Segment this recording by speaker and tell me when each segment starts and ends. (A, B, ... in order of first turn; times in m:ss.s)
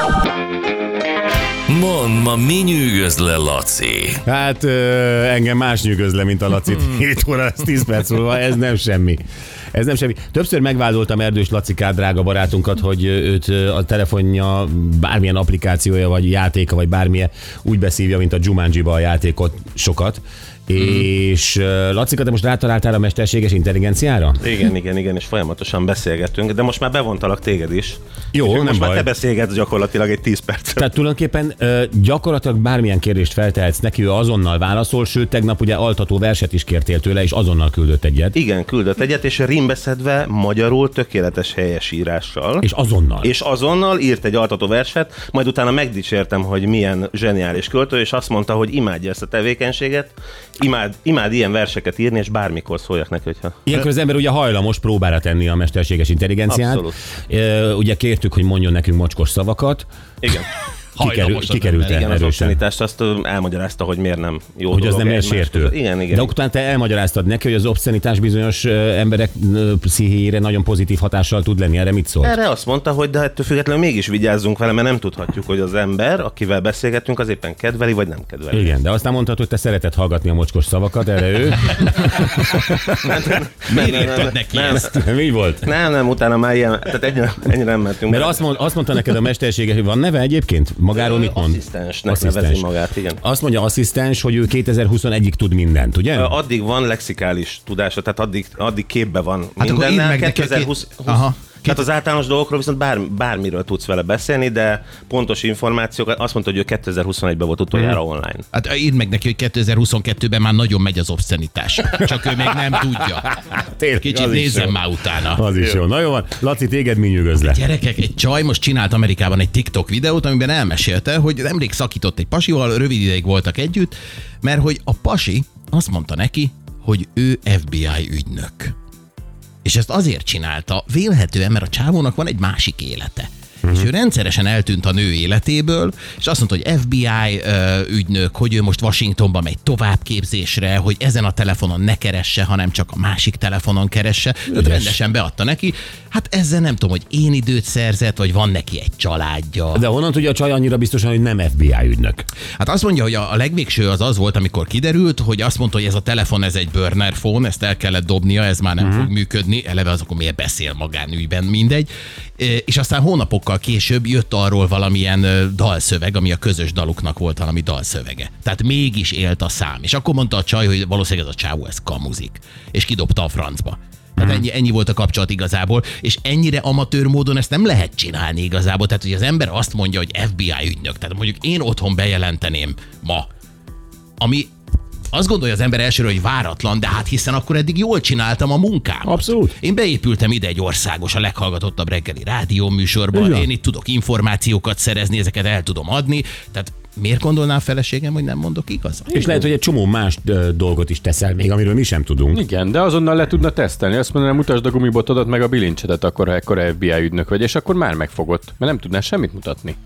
0:01.7-0:04.2 A
0:04.2-0:09.2 B
0:09.7-0:24.4 B
0:24.4-0:30.9 C
0:28.3-0:29.1 B
0:30.8-0:38.4 B
0:38.3-0:42.6 C
0:42.6-0:43.3 B
0:43.2-0:53.8 C
0:53.6-0:59.8 B
0:56.5-0:57.0 C
1:00.2-1:00.5 C
1:01.0-1:02.1 D
1:01.0-1:02.6 B
1:01.8-1:06.3 C
1:04.7-1:12.4 B
1:12.2-1:18.7 C
1:18.5-1:23.3 B
1:23.1-1:24.9 C
1:23.6-1:25.1 D
1:24.9-1:25.7 B
1:25.6-1:28.4 C
1:28.1-1:32.7 B
1:30.9-1:33.2 C
1:33.2-1:36.4 B
1:36.1-1:48.4 C
1:39.6-1:41.9 D
1:48.5-1:53.3 D
1:51.9-1:57.6 B
1:54.0-1:55.5 D
1:57.4-2:08.8 D
2:09.6-2:29.8 D
2:24.5-2:25.0 B
2:29.7-2:32.2 B
2:32.6-3:03.3 D
2:38.8-2:39.1 B
2:54.2-2:54.4 B
3:04.2-3:04.5 D
3:05.1-3:19.3 D
3:09.0-3:09.5 B
3:13.1-3:13.5 B
3:19.1-3:22.4 B
3:22.3-3:29.8 E